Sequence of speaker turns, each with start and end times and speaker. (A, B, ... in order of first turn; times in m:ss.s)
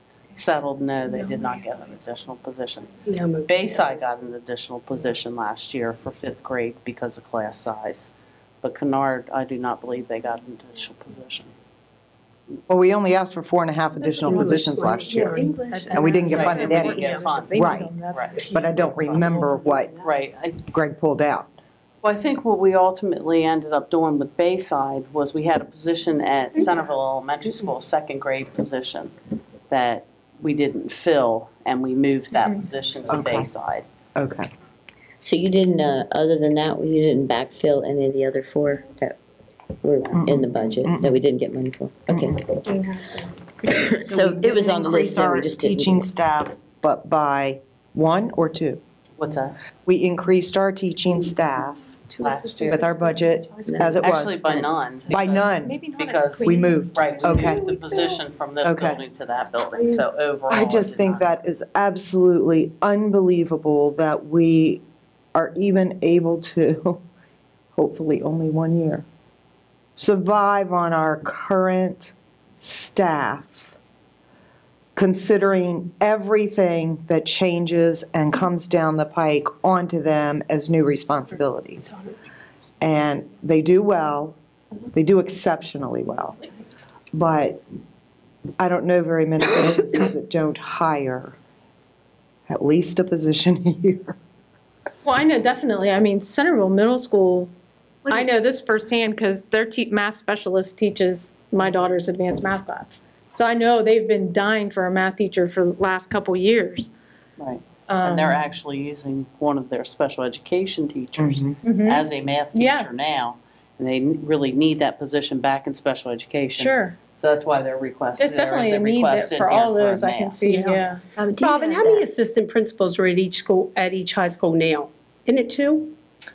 0:00.4-0:03.0 A
0:03.0-0:04.1 B
0:03.5-0:08.1 A
0:08.6-0:11.5 A
0:12.7-0:17.9 C
0:14.0-0:17.4 B
0:15.2-0:18.5 D
0:16.3-0:17.6 A
0:18.1-0:20.6 A
0:18.5-0:19.9 C
0:20.7-0:21.5 C
0:22.0-0:29.1 A
0:29.7-0:33.9 A
0:33.1-0:33.5 C
0:34.2-0:34.5 C
0:35.2-0:39.2 E
0:39.8-0:42.9 E
0:40.1-0:41.2 C
0:42.1-0:42.4 C
0:43.6-0:46.1 E
0:44.0-0:48.8 C
0:49.2-0:49.6 A
0:49.9-0:52.0 C
0:52.2-0:53.0 A
0:52.2-0:52.8 D
0:52.7-0:54.5 C
0:53.7-0:54.0 E
0:54.0-1:01.3 A
0:55.1-0:55.8 C
0:55.3-0:58.0 D
0:56.4-0:57.7 C
0:58.6-0:59.0 C
1:00.5-1:04.8 C
1:05.3-1:07.0 C
1:07.8-1:09.0 C
1:10.0-1:13.7 C
1:15.0-1:21.9 C
1:22.8-1:24.4 C
1:24.9-1:26.4 C
1:27.1-1:27.6 C
1:28.6-1:31.4 C
1:32.5-1:34.2 C
1:35.0-1:37.5 D
1:38.1-1:46.9 D
1:47.4-2:00.4 A
1:47.9-1:48.4 D
1:51.2-1:51.6 C
1:51.6-1:53.0 D
1:56.5-1:57.0 D
1:58.2-2:01.0 D
2:00.4-2:05.9 B
2:01.2-2:02.1 E